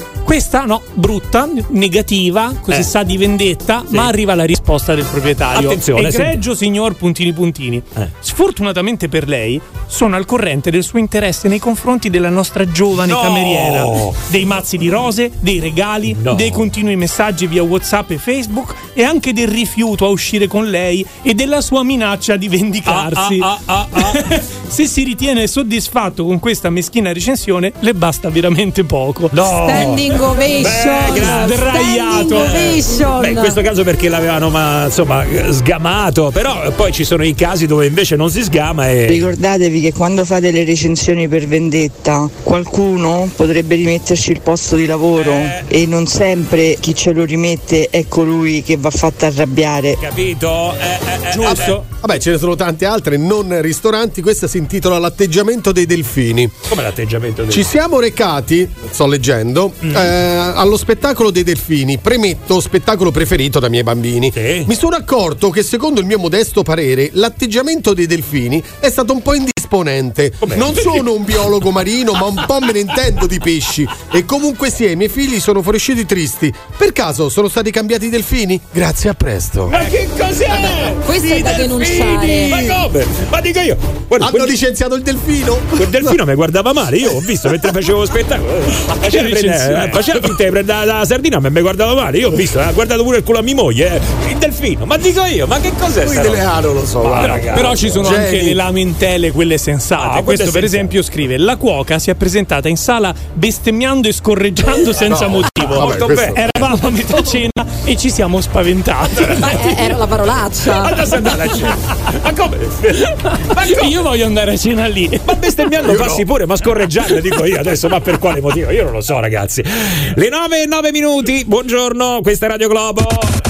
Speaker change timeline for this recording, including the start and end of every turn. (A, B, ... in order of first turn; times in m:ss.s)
0:00.2-0:29.4 A
0:05.5-0:06.4 B
0:13.0-0:14.2 B
0:16.1-0:16.7 B
0:22.9-0:24.3 B
0:29.3-0:39.3 B
0:29.6-0:33.6 C
0:31.2-0:32.6 A
0:39.3-0:50.0 D
0:45.1-0:45.7 B
0:50.0-0:51.8 B
0:51.3-0:51.8 A
0:51.5-0:56.5 E
0:56.7-0:57.7 B
0:57.5-1:19.8 E
0:59.8-1:00.1 B
1:04.4-1:04.7 B
1:10.4-1:11.1 B
1:19.7-1:24.6 B
1:21.0-1:22.6 C
1:24.2-1:26.2 E
1:25.8-1:37.9 B
1:28.9-1:30.0 A
1:37.0-1:37.3 E
1:37.2-1:49.9 A
1:38.0-1:38.6 E
1:40.0-1:40.9 B
1:45.0-1:46.4 E
1:45.8-1:46.7 B
1:49.4-1:51.0 C
1:50.7-1:54.0 B
1:53.5-1:55.5 A
1:55.3-2:03.4 B
1:55.8-1:56.2 E